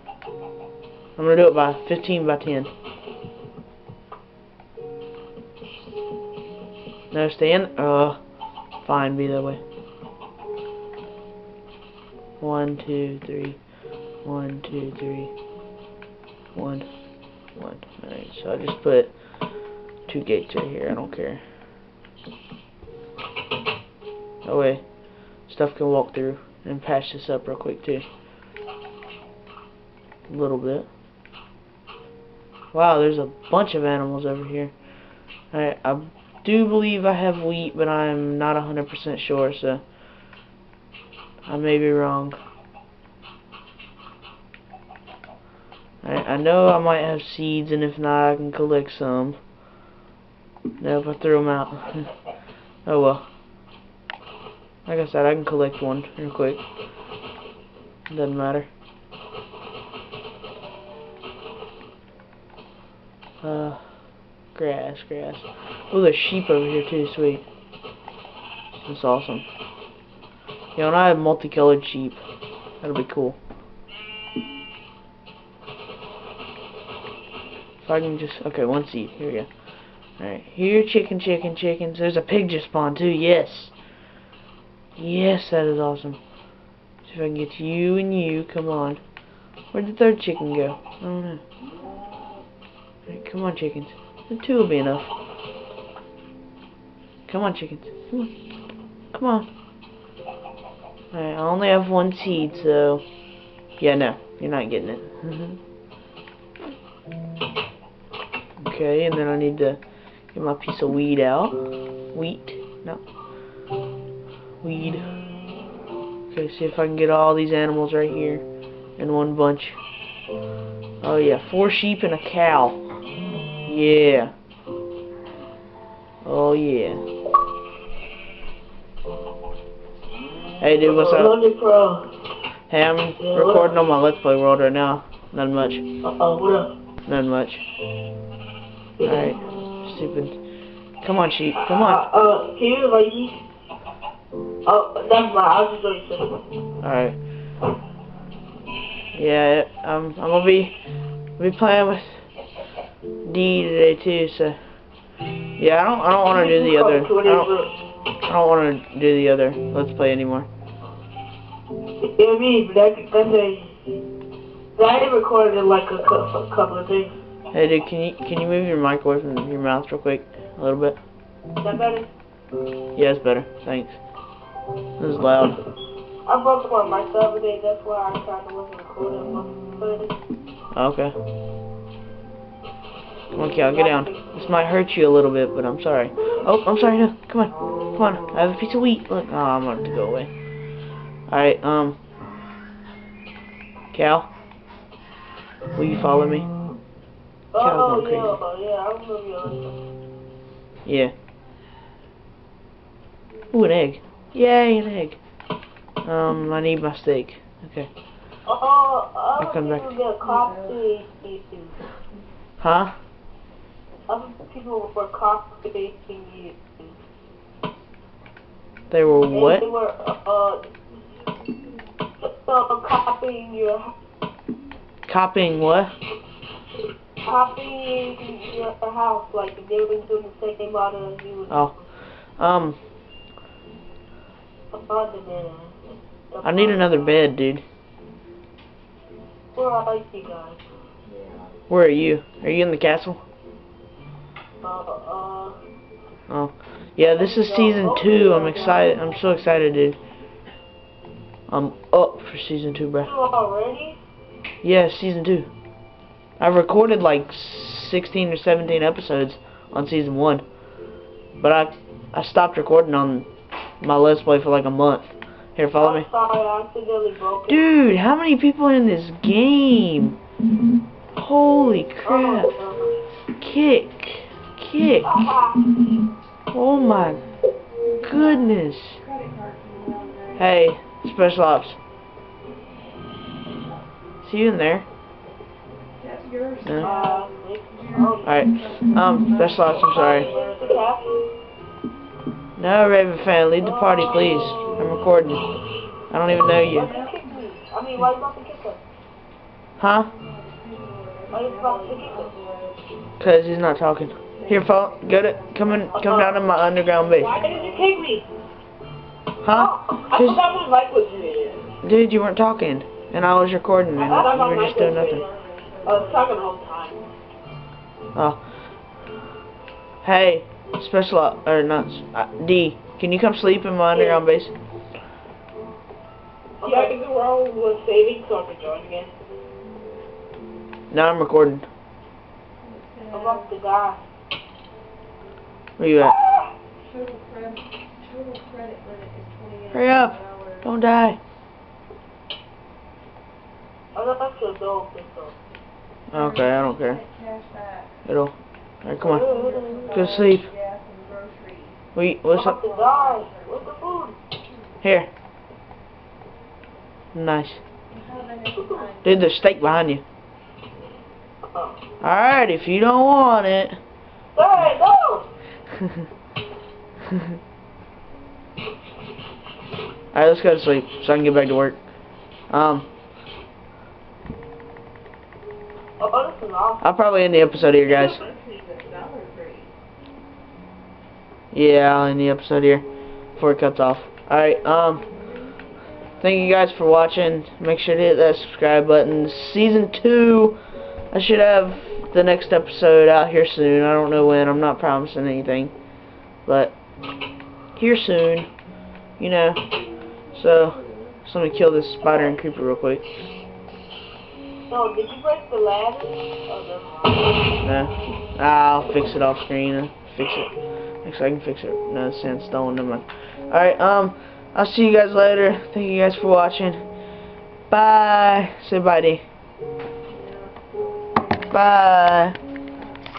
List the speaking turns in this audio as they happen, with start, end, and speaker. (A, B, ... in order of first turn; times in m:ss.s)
0:01.2-0:02.7 A
0:07.1-0:08.2 A
0:08.8-0:09.6 A
0:12.4-0:13.6 A
0:14.2-0:15.3 A
0:16.5-0:16.9 A
0:17.6-0:19.1 A
0:20.1-0:21.4 A
0:24.4-0:24.8 A
0:25.5-0:28.0 A
0:30.3-0:30.9 A
0:32.7-0:34.7 A
0:35.5-0:39.8 A
0:41.5-0:42.4 A
0:46.0-0:49.4 A
0:50.8-0:52.1 A
0:52.8-0:53.2 A
0:54.8-0:56.6 A
0:58.1-0:58.7 A
1:03.4-1:03.8 A
1:04.5-1:07.4 A
1:08.8-1:09.4 A
1:10.7-1:12.2 A
1:12.8-1:13.4 A
1:17.8-1:19.5 A
1:20.2-1:23.7 A
1:25.0-1:26.2 A
1:27.0-1:29.0 A
1:29.7-1:31.4 A
1:33.1-1:35.1 A
1:37.3-1:38.3 A
1:39.1-1:39.5 A
1:41.1-1:43.0 A
1:43.8-1:45.6 A
1:48.6-1:49.8 A
1:50.3-1:53.0 A
1:54.6-1:55.0 A
1:56.3-1:58.4 A
1:59.0-1:59.8 A
2:01.0-2:02.8 A
2:03.6-2:04.3 A
2:06.2-2:07.0 A
2:10.6-2:11.4 A
2:10.8-2:12.2 B
2:12.7-2:15.8 A
2:13.2-2:13.7 B
2:16.0-2:16.7 B
2:17.0-2:17.6 A
2:19.0-2:20.4 A
2:21.0-2:22.0 A
2:21.5-2:23.4 B
2:24.6-2:26.4 B
2:26.8-2:27.2 A
2:29.1-2:30.8 A
2:31.4-2:32.2 A
2:33.2-2:34.6 A
2:35.6-2:37.5 A
2:36.3-2:37.7 B
2:38.2-2:40.5 A
2:42.0-2:43.7 B
2:44.7-2:47.1 B
2:47.5-2:51.0 A
2:51.6-2:52.1 B
2:52.9-2:54.0 A
2:55.0-2:55.6 A
2:56.3-3:00.1 B
3:00.7-3:01.2 A
3:03.3-3:10.3 A
3:03.6-3:04.6 B
3:11.3-3:12.0 A
3:13.9-3:14.3 A
3:15.7-3:16.5 A
3:17.5-3:19.7 B
3:17.6-3:18.4 A
3:20.8-3:21.1 A
3:23.5-3:25.2 A
3:26.0-3:27.9 A
3:28.4-3:31.8 B
3:29.4-3:29.9 A
3:32.6-3:33.0 A
3:34.1-3:37.0 B
3:38.9-3:39.6 A
3:39.3-3:40.6 B
3:42.2-3:43.9 B
3:45.1-3:45.9 A
3:47.2-3:51.8 B
3:52.4-3:52.8 A
3:54.7-3:55.8 B
3:56.3-3:57.3 B
3:56.4-3:57.6 A
3:59.5-4:00.6 B
4:01.7-4:03.2 A
4:04.6-4:05.6 B
4:06.3-4:10.0 A
4:07.0-4:09.2 B
4:11.5-4:13.1 A
4:13.0-4:14.0 B
4:14.6-4:15.5 A
4:16.4-4:20.4 A
4:21.4-4:23.3 A
4:23.8-4:26.0 A
4:25.8-4:27.7 B
4:27.5-4:30.2 A
4:31.1-4:32.5 A
4:32.0-4:33.0 B
4:33.4-4:35.2 A
4:35.0-4:35.7 B
4:36.5-4:37.2 A
4:37.8-4:40.4 C
4:38.0-4:39.0 A
4:40.4-4:41.8 A
4:44.2-4:44.9 A
4:46.0-4:50.5 C
4:46.6-4:46.9 A
4:46.8-4:48.3 B
4:48.2-4:50.3 A
4:49.8-4:51.2 B
4:52.6-4:55.4 A
4:53.6-4:54.7 B
4:56.1-4:56.9 A
4:56.7-4:58.8 B
4:56.7-4:57.3 C
4:59.8-5:00.1 A
5:00.1-5:02.9 C
5:01.3-5:02.4 B
5:03.2-5:07.3 A
5:04.3-5:08.0 C
5:06.0-5:06.4 B
5:07.2-5:08.3 B
5:09.4-5:10.4 A
5:09.5-5:11.6 B
5:11.3-5:11.8 C
5:11.8-5:15.2 A
5:14.0-5:17.1 B
5:14.2-5:16.8 C
5:18.1-5:18.4 A
5:20.0-5:24.6 A
5:23.9-5:24.2 B
5:26.6-5:29.1 B
5:30.9-5:31.7 A
5:32.6-5:33.5 C
5:33.1-5:34.0 B
5:35.8-5:36.2 A
5:36.0-5:36.4 B
5:36.8-5:40.7 C
5:39.7-5:41.2 A
5:43.9-5:45.4 B
5:46.1-5:47.0 A
5:46.1-5:48.0 C
5:48.0-5:49.3 A
5:49.0-5:50.0 B
5:49.2-5:51.8 C
5:49.9-5:50.5 A
5:51.9-5:52.6 A
5:52.3-5:54.2 B
5:52.6-5:53.9 C
5:54.4-5:54.7 C
5:54.8-5:55.1 A
5:57.1-5:57.6 A
5:57.9-5:59.4 C
5:58.6-5:58.8 B
5:59.0-6:00.0 A
6:01.5-6:01.8 B
6:02.0-6:03.8 A
6:04.3-6:05.3 B
6:05.7-6:06.0 A
6:07.1-6:07.4 A
6:10.1-6:11.8 A
6:12.5-6:12.9 A
6:16.0-6:16.9 B
6:16.8-6:18.3 A
6:17.8-6:19.7 C
6:21.5-6:25.0 A
6:26.2-6:30.6 A
6:31.1-6:35.7 A
6:36.4-6:36.8 A
6:37.8-6:38.5 A
6:39.2-6:39.6 A
6:40.3-6:43.0 A
6:44.7-6:47.6 B
6:47.6-6:50.5 A
6:51.0-6:56.8 A
6:57.7-6:59.2 A
7:00.1-7:01.6 C
7:01.5-7:02.4 A